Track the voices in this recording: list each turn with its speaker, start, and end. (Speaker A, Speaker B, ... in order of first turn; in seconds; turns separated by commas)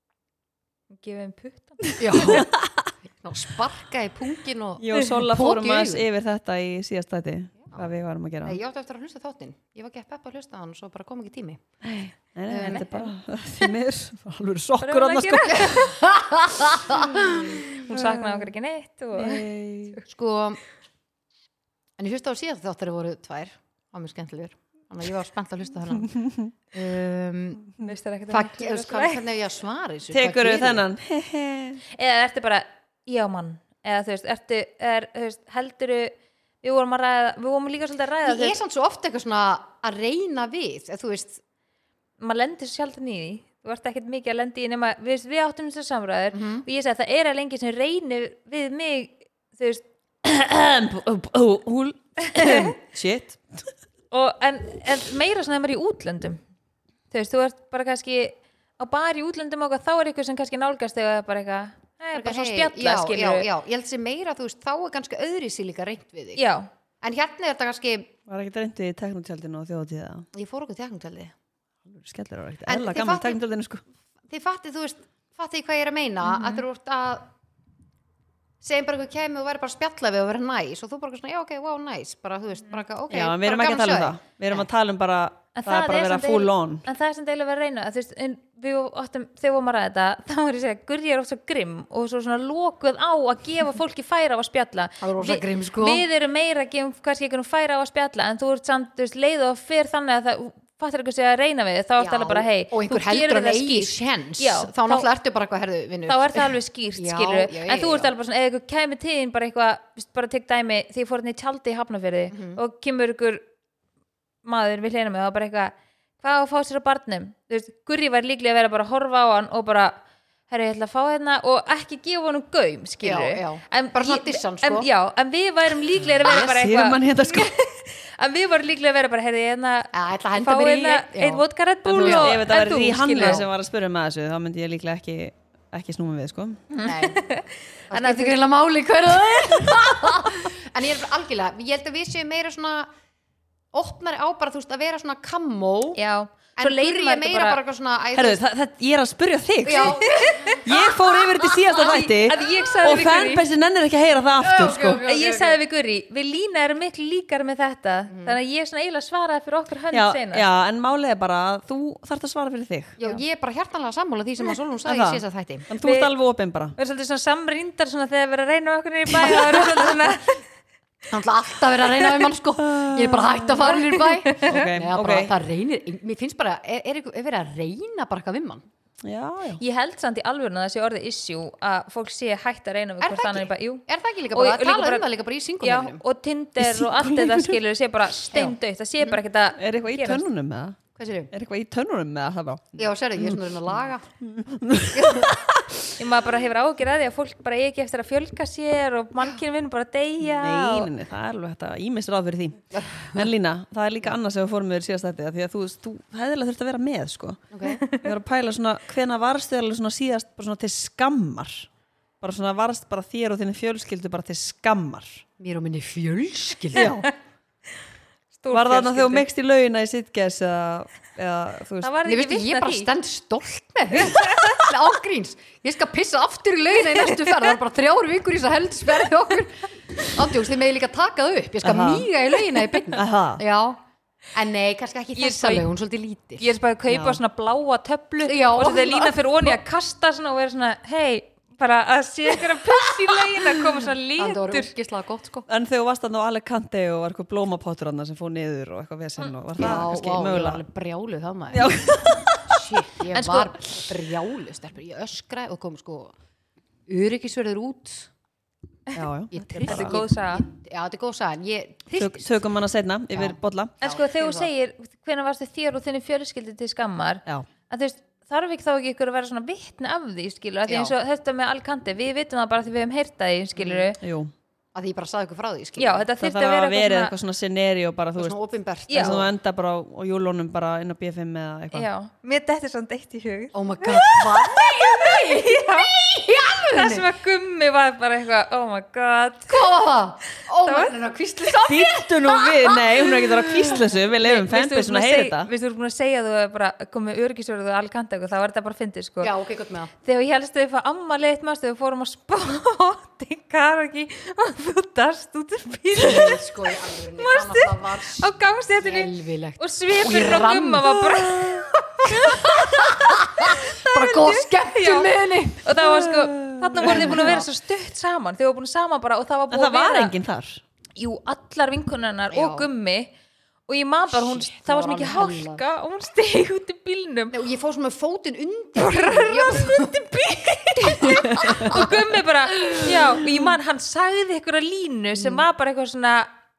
Speaker A: 0.9-2.4, Speaker B: 1.9-2.9, Speaker C: 2.0-2.5, Speaker C: 3.2-6.1, Speaker B: 4.8-8.6, Speaker C: 8.4-11.6, Speaker B: 11.8-15.9, Speaker C: 12.5-13.0, Speaker A: 14.8-15.9, Speaker C: 15.6-17.6, Speaker B: 17.1-18.5, Speaker A: 17.1-20.0, Speaker B: 19.1-20.0, Speaker C: 20.1-20.6, Speaker C: 22.0-30.8, Speaker A: 27.8-29.2, Speaker B: 30.1-31.8, Speaker A: 31.9-38.6, Speaker C: 38.3-41.4, Speaker A: 42.2-49.8, Speaker C: 46.3-46.6, Speaker B: 50.2-53.7, Speaker A: 52.2-52.8, Speaker A: 54.1-56.4, Speaker A: 57.1-63.5, Speaker C: 62.1-66.4, Speaker A: 66.4-66.7, Speaker C: 67.0-68.1, Speaker B: 68.3-70.3, Speaker C: 70.3-71.3, Speaker B: 71.8-73.8, Speaker C: 72.7-73.4, Speaker C: 74.3-77.3, Speaker A: 76.2-76.6, Speaker C: 78.6-84.7, Speaker B: 83.1-86.9, Speaker A: 85.5-105.1, Speaker C: 95.0-96.0, Speaker C: 102.0-108.1, Speaker A: 106.1-113.4, Speaker C: 112.3-112.6, Speaker A: 114.4-133.4, Speaker C: 123.0-124.9, Speaker B: 126.2-127.5, Speaker C: 129.9-132.4, Speaker B: 131.9-136.6, Speaker C: 133.2-133.4, Speaker A: 136.7-138.4, Speaker C: 136.8-137.2, Speaker C: 137.9-142.9, Speaker C: 143.7-146.0, Speaker A: 145.9-147.6, Speaker C: 146.6-148.4, Speaker B: 148.1-150.0, Speaker C: 149.7-151.5, Speaker A: 149.8-150.9, Speaker B: 150.6-155.0, Speaker A: 151.5-153.5, Speaker C: 154.4-155.6, Speaker A: 155.0-160.4, Speaker C: 158.1-158.4, Speaker B: 159.9-163.0, Speaker C: 163.0-165.7, Speaker B: 164.8-166.8, Speaker A: 165.8-166.1, Speaker A: 166.8-170.4, Speaker C: 169.2-169.9, Speaker C: 171.1-178.6, Speaker B: 172.6-173.7, Speaker A: 173.8-174.6, Speaker B: 174.4-175.3, Speaker B: 179.0-179.6, Speaker A: 179.6-185.1, Speaker C: 183.0-186.0, Speaker A: 185.6-190.2, Speaker B: 186.6-187.6, Speaker C: 188.3-189.2, Speaker B: 189.6-190.8, Speaker C: 191.0-191.3, Speaker B: 191.3-193.4, Speaker C: 192.8-194.1, Speaker B: 194.2-195.9, Speaker C: 194.9-195.4, Speaker A: 196.0-200.9, Speaker B: 200.4-211.7, Speaker C: 202.7-203.3, Speaker C: 207.5-207.8, Speaker A: 207.7-208.1, Speaker B: 212.2-215.2, Speaker C: 215.4-217.0, Speaker B: 216.7-217.1, Speaker A: 216.8-217.1, Speaker A: 218.3-219.2, Speaker B: 218.5-221.9, Speaker A: 221.8-222.9, Speaker C: 222.1-233.8, Speaker A: 224.0-224.6, Speaker A: 227.0-227.4, Speaker B: 231.6-232.1, Speaker B: 232.9-233.4, Speaker C: 234.3-236.5, Speaker A: 235.2-235.7, Speaker A: 236.4-244.7, Speaker B: 236.9-237.2, Speaker C: 238.2-239.6, Speaker C: 244.2-245.5, Speaker B: 245.5-250.6, Speaker C: 249.6-251.8, Speaker B: 251.5-253.5, Speaker C: 252.4-256.1, Speaker C: 256.9-258.1, Speaker B: 258.9-260.0, Speaker C: 259.3-262.3, Speaker A: 259.7-260.5, Speaker B: 262.0-263.7, Speaker C: 263.1-264.5, Speaker A: 263.8-274.0, Speaker C: 270.7-270.9, Speaker C: 273.6-273.9, Speaker B: 274.0-274.3, Speaker C: 274.8-276.1, Speaker A: 275.8-277.1, Speaker B: 276.2-278.4, Speaker C: 278.2-279.3, Speaker A: 278.9-279.2, Speaker B: 278.9-281.9, Speaker A: 281.7-289.7, Speaker C: 283.5-287.1, Speaker C: 289.5-293.1, Speaker A: 290.6-291.0, Speaker B: 291.6-295.5, Speaker A: 294.1-299.3, Speaker C: 299.2-299.9, Speaker A: 300.0-320.1, Speaker C: 306.0-315.7, Speaker B: 315.8-317.4, Speaker C: 316.8-317.5, Speaker B: 319.5-320.6, Speaker A: 321.0-323.1, Speaker C: 322.3-322.7, Speaker A: 323.7-327.4, Speaker C: 324.1-325.6, Speaker C: 327.3-332.0, Speaker A: 328.8-336.3, Speaker B: 331.1-331.9, Speaker C: 332.6-332.9, Speaker B: 333.2-333.5, Speaker C: 335.1-335.4